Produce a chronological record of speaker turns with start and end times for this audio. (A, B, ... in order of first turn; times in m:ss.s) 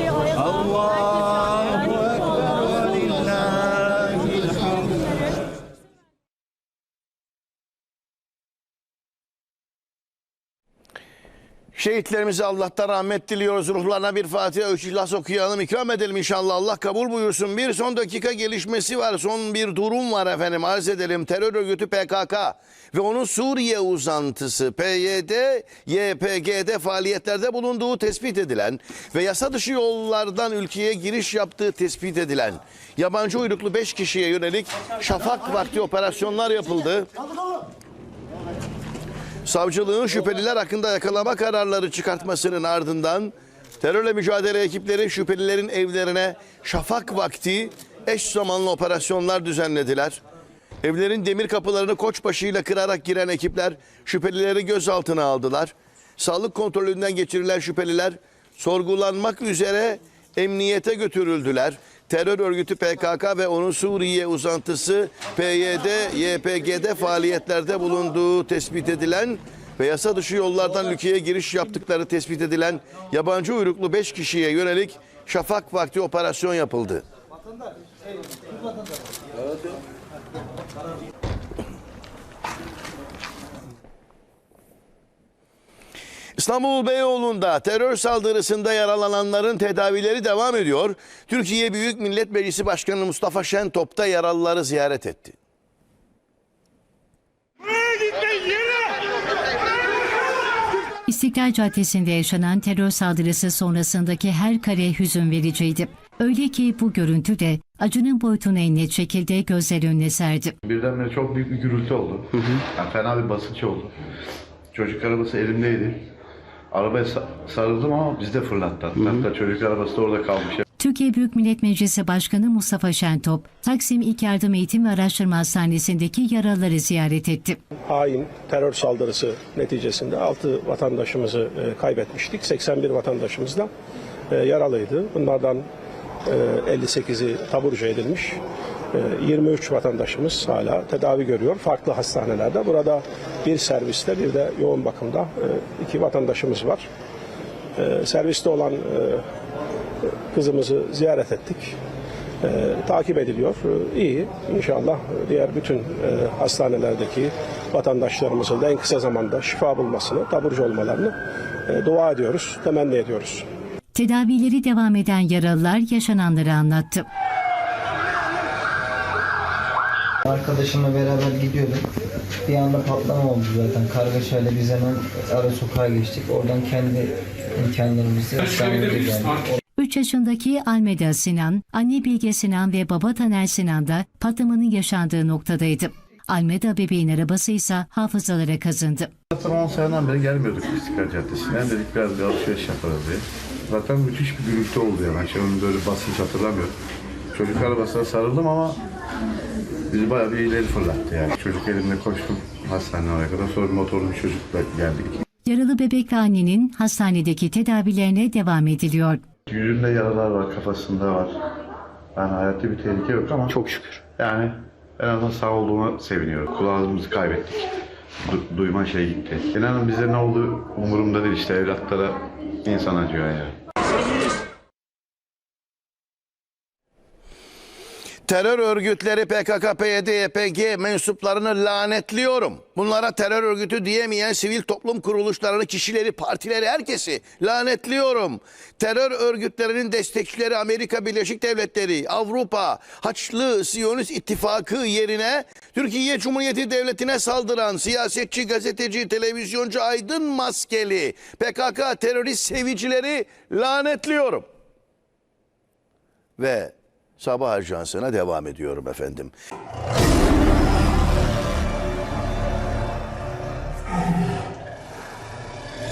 0:11.8-0:37.1 A
0:39.5-0:50.2 A
0:50.8-1:17.0 A
1:26.4-1:35.4 A
1:41.1-1:50.6 B
1:50.6-1:53.9 C
1:54.7-1:56.1 C
1:56.7-2:00.6 C
2:00.8-2:07.6 B
2:07.9-2:13.7 D
2:14.3-2:15.7 D
2:16.2-2:18.4 D
2:18.9-2:26.9 D
2:27.8-2:29.2 D
2:30.3-2:31.8 D
2:32.4-2:43.4 D
2:43.9-2:47.0 B
2:50.2-2:51.9 E
2:52.5-2:59.6 E
2:59.8-3:09.1 B
3:09.3-3:16.8 C
3:17.3-3:18.8 C
3:19.9-3:25.2 C
3:25.5-3:29.2 B
3:29.5-3:31.4 C
3:32.2-3:33.6 C
3:33.5-3:34.0 E
3:34.2-3:37.7 C
3:38.3-3:43.6 C
3:48.3-4:14.5 A
4:16.4-4:19.3 A